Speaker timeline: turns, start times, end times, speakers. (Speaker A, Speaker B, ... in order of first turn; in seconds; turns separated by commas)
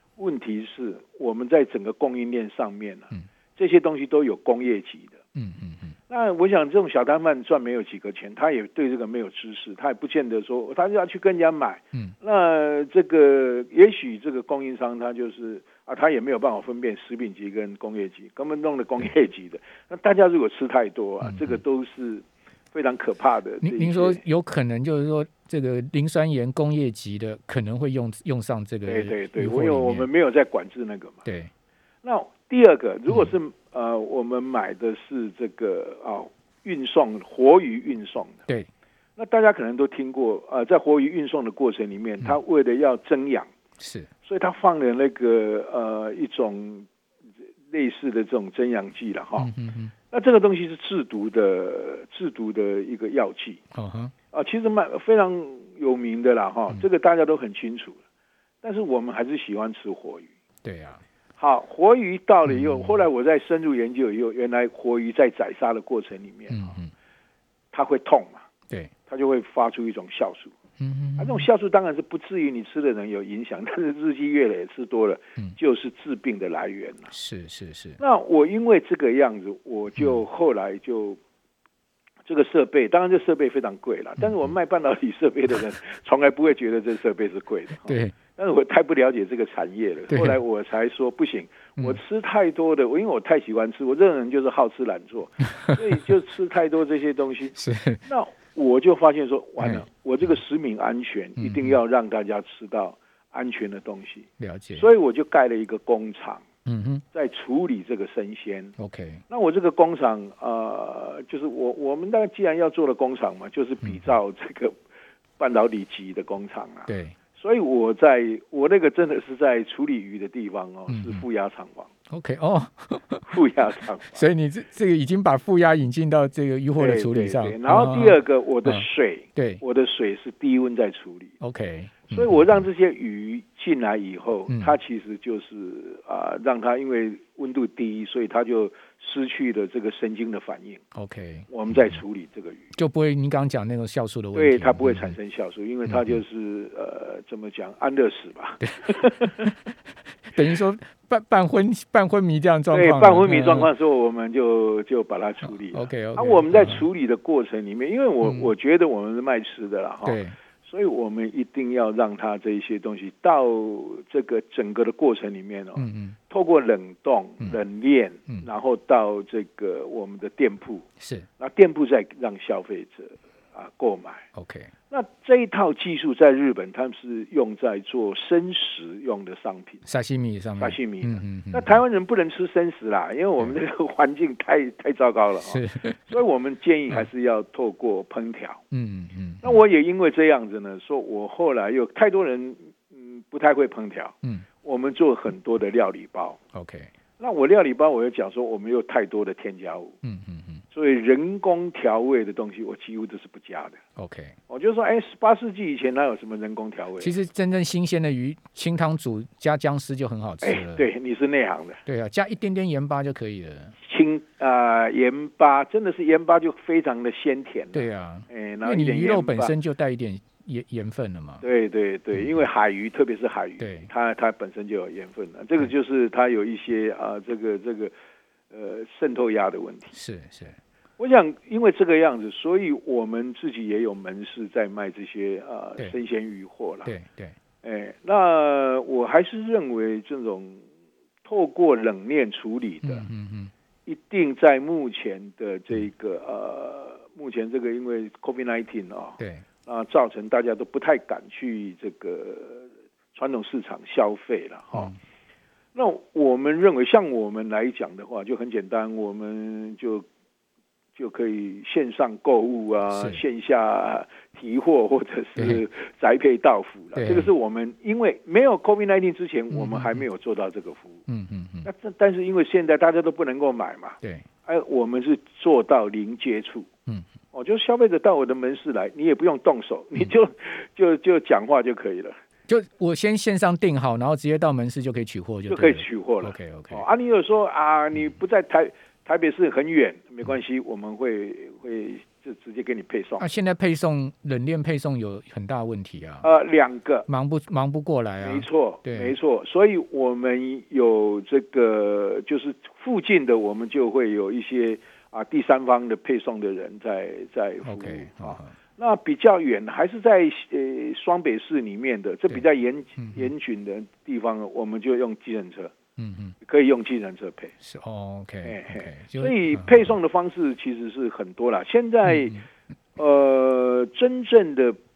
Speaker A: 0.2-5.2, Speaker B: 5.3-6.0, Speaker A: 6.1-24.2, Speaker B: 21.2-21.6, Speaker B: 23.6-30.1, Speaker A: 28.9-31.3, Speaker B: 31.2-31.5, Speaker A: 32.0-38.4, Speaker A: 39.2-43.5, Speaker B: 43.8-44.1, Speaker A: 44.2-46.9, Speaker A: 47.7-49.5, Speaker B: 49.4-49.9, Speaker A: 50.1-53.6, Speaker B: 53.7-54.1, Speaker A: 54.3-58.0, Speaker A: 58.6-60.3, Speaker B: 60.6-61.0, Speaker A: 61.4-66.8, Speaker B: 62.5-62.9, Speaker B: 66.5-66.9, Speaker A: 67.7-68.5, Speaker A: 69.1-70.5, Speaker B: 70.8-71.5, Speaker A: 71.2-77.1, Speaker B: 77.1-78.0, Speaker A: 78.0-81.2, Speaker A: 82.3-97.5, Speaker B: 87.9-88.2, Speaker B: 90.1-90.4, Speaker B: 97.6-98.0, Speaker A: 98.1-106.4, Speaker B: 101.4-101.8, Speaker B: 104.4-104.9, Speaker B: 106.7-107.0, Speaker A: 107.1-108.7, Speaker B: 108.8-109.2, Speaker A: 109.3-114.8, Speaker A: 115.4-121.9, Speaker B: 116.9-117.2, Speaker B: 120.9-121.2, Speaker B: 122.1-123.3, Speaker A: 123.3-124.2, Speaker B: 124.1-128.8, Speaker A: 126.8-131.4, Speaker B: 129.4-129.6, Speaker B: 131.4-132.6, Speaker A: 132.1-140.8, Speaker B: 140.9-141.9, Speaker A: 141.5-142.7, Speaker B: 142.8-145.2, Speaker A: 144.3-149.5, Speaker B: 148.9-149.5, Speaker B: 150.3-153.7, Speaker A: 152.7-170.9, Speaker B: 155.7-156.8, Speaker B: 158.2-158.5, Speaker B: 160.1-160.4, Speaker B: 165.8-166.2, Speaker B: 171.0-171.3, Speaker A: 171.4-174.3, Speaker B: 174.3-174.7, Speaker A: 174.9-179.9, Speaker B: 179.9-181.8, Speaker A: 180.6-188.6, Speaker B: 185.4-186.0, Speaker B: 188.7-189.6, Speaker A: 189.4-196.4, Speaker B: 196.5-196.9, Speaker A: 197.2-199.9, Speaker B: 200.0-200.6, Speaker A: 200.7-203.8, Speaker B: 204.0-204.4, Speaker A: 204.5-207.1, Speaker B: 207.0-210.9, Speaker A: 210.4-211.8, Speaker B: 211.9-213.8, Speaker A: 213.8-219.5, Speaker B: 217.7-221.4, Speaker A: 221.4-227.9, Speaker B: 223.6-223.9, Speaker A: 228.5-229.9, Speaker B: 229.9-230.6, Speaker A: 231.0-236.9, Speaker B: 236.8-237.3, Speaker A: 237.6-240.6, Speaker A: 241.2-243.1, Speaker B: 242.8-243.5, Speaker A: 243.9-254.9, Speaker B: 249.2-249.4, Speaker A: 255.8-260.1, Speaker A: 261.0-271.0, Speaker B: 262.9-263.2, Speaker B: 265.4-265.6, Speaker B: 266.9-267.3, Speaker B: 269.5-270.0, Speaker B: 271.1-271.7, Speaker A: 271.6-276.7, Speaker A: 277.3-282.2, Speaker B: 282.5-286.8, Speaker A: 285.5-293.3, Speaker B: 293.2-296.3, Speaker A: 296.2-297.1, Speaker B: 297.1-299.1, Speaker A: 298.2-315.7, Speaker B: 307.6-308.5, Speaker B: 313.0-313.3, Speaker B: 316.0-316.4, Speaker A: 316.4-317.5, Speaker B: 317.6-319.9, Speaker A: 318.4-322.4, Speaker B: 322.1-322.4, Speaker A: 323.0-324.8